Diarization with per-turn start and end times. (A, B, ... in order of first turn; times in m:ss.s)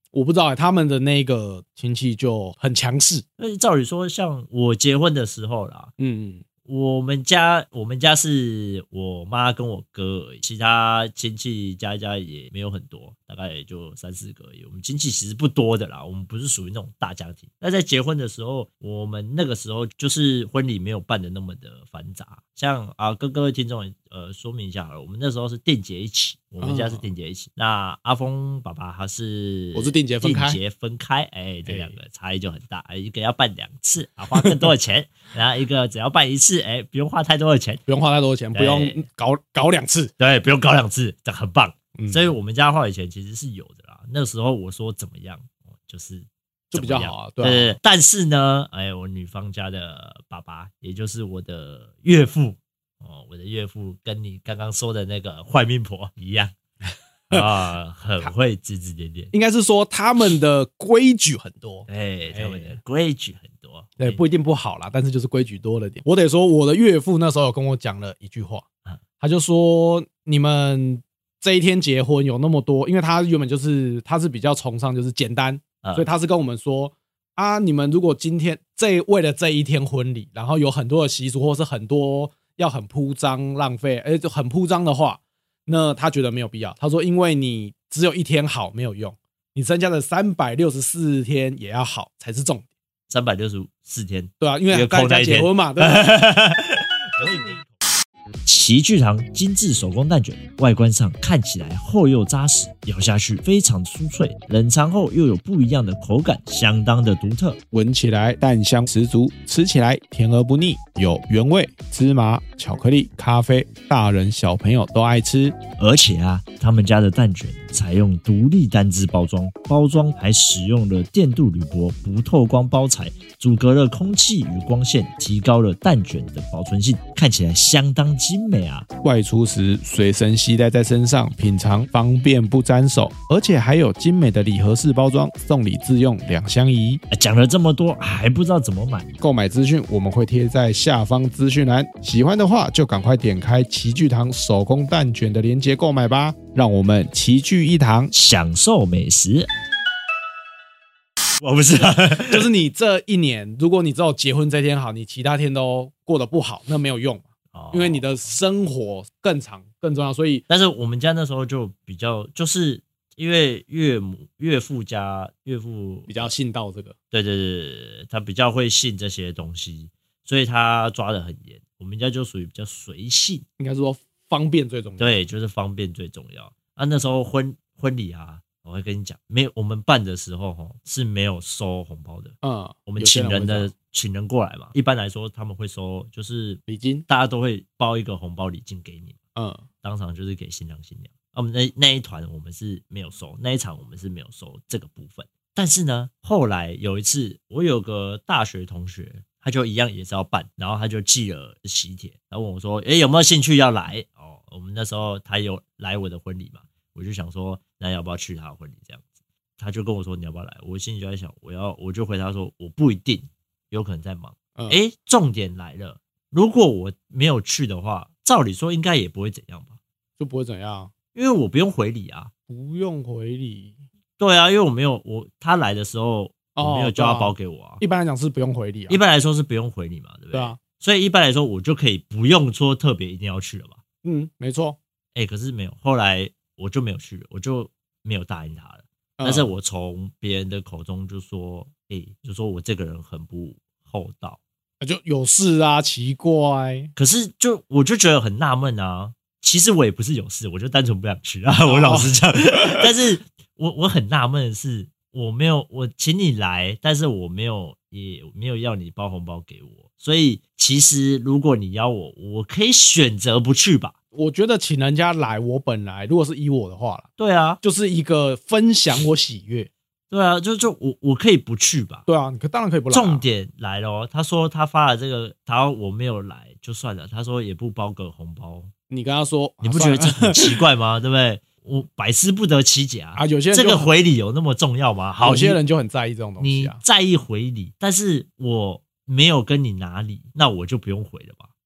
0:00.1-0:03.2 A
0:03.4-0:05.9 B
0:06.0-0:06.4 A
0:06.6-0:37.8 B
0:26.6-0:27.0 A
0:29.7-0:30.6 A
0:31.6-0:31.9 A
0:34.3-0:34.7 A
0:37.9-0:40.1 A
0:38.5-0:39.0 B
0:40.2-0:56.5 B
0:42.0-0:42.3 A
0:46.7-0:47.8 A
0:57.3-0:59.3 B
0:59.3-1:02.8 A
1:01.9-1:04.2 B
1:04.0-1:08.6 A
1:09.2-1:32.7 A
1:15.8-1:16.1 B
1:33.1-1:37.6 B
1:34.4-1:36.1 A
1:37.2-1:37.6 A
1:38.4-1:47.6 B
1:47.7-1:55.6 A
1:55.8-2:08.9 B
2:09.0-2:17.0 A
2:17.1-2:19.1 B
2:19.2-2:28.1 A
2:28.1-2:29.5 B
2:31.4-2:32.5 B
2:32.2-2:40.4 A
2:37.5-2:38.1 B
2:40.5-2:46.3 B
2:46.1-2:46.9 A
2:47.1-2:53.4 B
2:53.6-2:55.2 A
2:55.0-3:09.2 B
3:02.4-3:03.7 A
3:06.7-3:07.0 A
3:09.4-3:09.6 A
3:09.8-3:39.8 B
3:40.2-3:40.9 A
3:41.1-3:42.3 B
3:42.5-3:43.8 A
3:44.2-3:47.8 B
3:46.6-3:49.0 A
3:48.9-3:53.8 B
3:50.3-3:50.6 A
3:54.0-3:54.8 A
3:55.1-4:04.4 B
3:59.2-3:59.5 A
4:04.8-4:06.9 A
4:07.0-4:23.9 B
4:11.6-4:12.8 A
4:24.1-4:27.1 A
4:27.2-4:27.6 B
4:27.6-4:29.7 A
4:30.1-4:32.0 B
4:32.1-4:33.2 A
4:32.9-4:38.7 B
4:38.9-4:40.6 A
4:39.6-4:45.6 B
4:43.2-4:43.9 A
4:45.2-4:46.8 A
4:46.4-4:51.5 B